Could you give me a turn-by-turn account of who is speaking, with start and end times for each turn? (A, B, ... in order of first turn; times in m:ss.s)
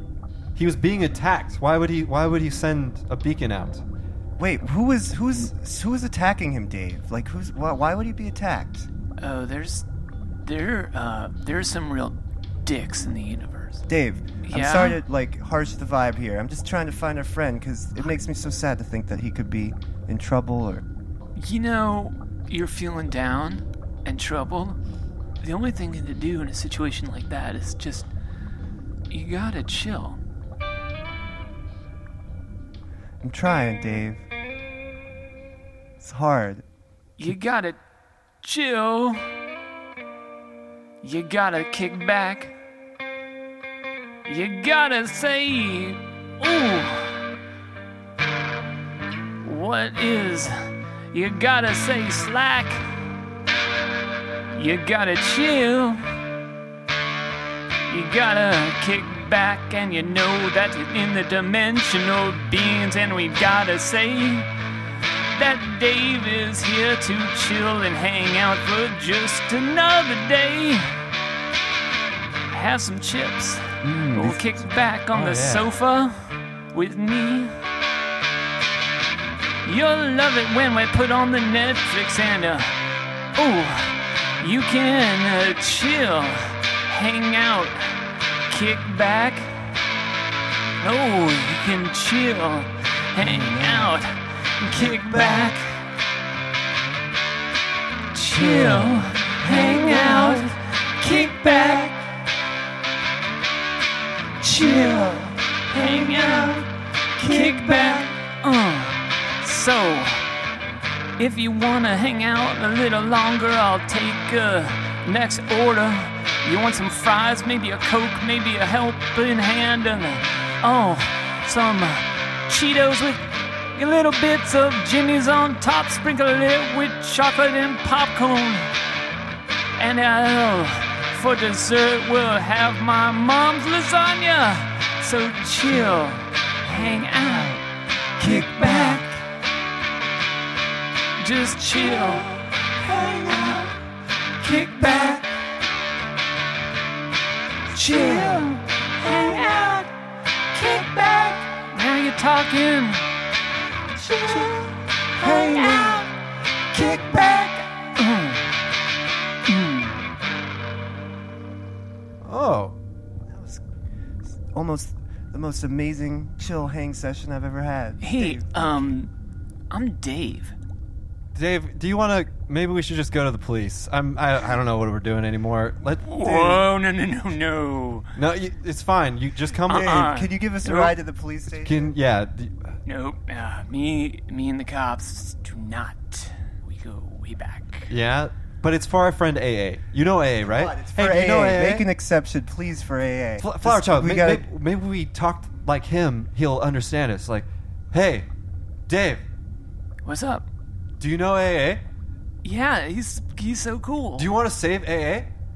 0:00.6-0:03.8 A
0:04.4-0:08.9 B
0:09.2-0:09.8 C
0:10.4-0:13.8 C
0:13.9-0:20.8 B
0:14.4-0:15.0 C
0:21.4-0:24.8 C
0:25.4-0:28.1 C
0:29.1-0:30.2 C
0:33.2-0:34.2 B
0:36.0-0:36.6 B
0:37.2-0:37.8 C
0:38.4-0:39.3 C
0:41.0-0:42.5 C
0:44.3-0:47.2 C
0:49.4-0:50.5 C
0:51.1-0:52.8 C
0:54.5-0:56.0 C
0:57.9-1:04.5 C
1:05.3-1:10.9 C
1:12.5-1:17.6 C
1:13.8-1:14.4 A
1:15.1-1:15.7 A
1:19.6-1:22.8 C
1:23.4-1:27.9 C
1:28.5-1:29.5 C
1:30.8-1:35.9 C
1:35.0-1:35.4 A
1:38.1-1:42.1 C
1:38.7-1:38.9 A
1:39.5-1:40.4 B
1:44.4-1:46.7 C
1:44.7-1:46.6 B
1:47.2-1:50.2 C
1:47.2-1:48.0 B
1:51.2-2:03.2 C
2:03.8-2:08.7 C
2:09.8-2:17.6 C
2:18.2-2:19.2 C
2:18.2-2:19.0 B
2:21.2-2:23.8 C
2:23.0-2:23.6 B
2:24.4-2:25.4 C
2:27.7-2:29.9 C
2:27.8-2:28.6 B
2:30.5-2:33.0 C
2:34.0-2:36.1 C
2:34.3-2:34.6 B
2:35.2-2:36.1 B
2:36.7-2:38.6 C
2:36.7-2:37.5 B
2:39.5-2:40.0 C
2:42.2-2:42.8 A
2:43.3-2:43.6 B
2:44.4-2:48.9 B
2:48.0-2:49.1 C
2:49.7-2:50.5 C
2:51.3-2:56.1 A
2:56.0-2:58.1 C
2:56.3-2:56.6 B
2:58.2-3:00.0 A
2:59.7-3:00.9 C
2:59.7-3:01.9 B
3:01.6-3:02.7 A
3:02.8-3:07.9 C
3:07.9-3:11.9 A
3:10.5-3:14.5 B
3:13.4-3:18.3 A
3:18.9-3:19.2 A
3:20.0-3:20.5 C
3:21.0-3:21.8 A
3:22.4-3:24.3 C
3:24.2-3:25.3 A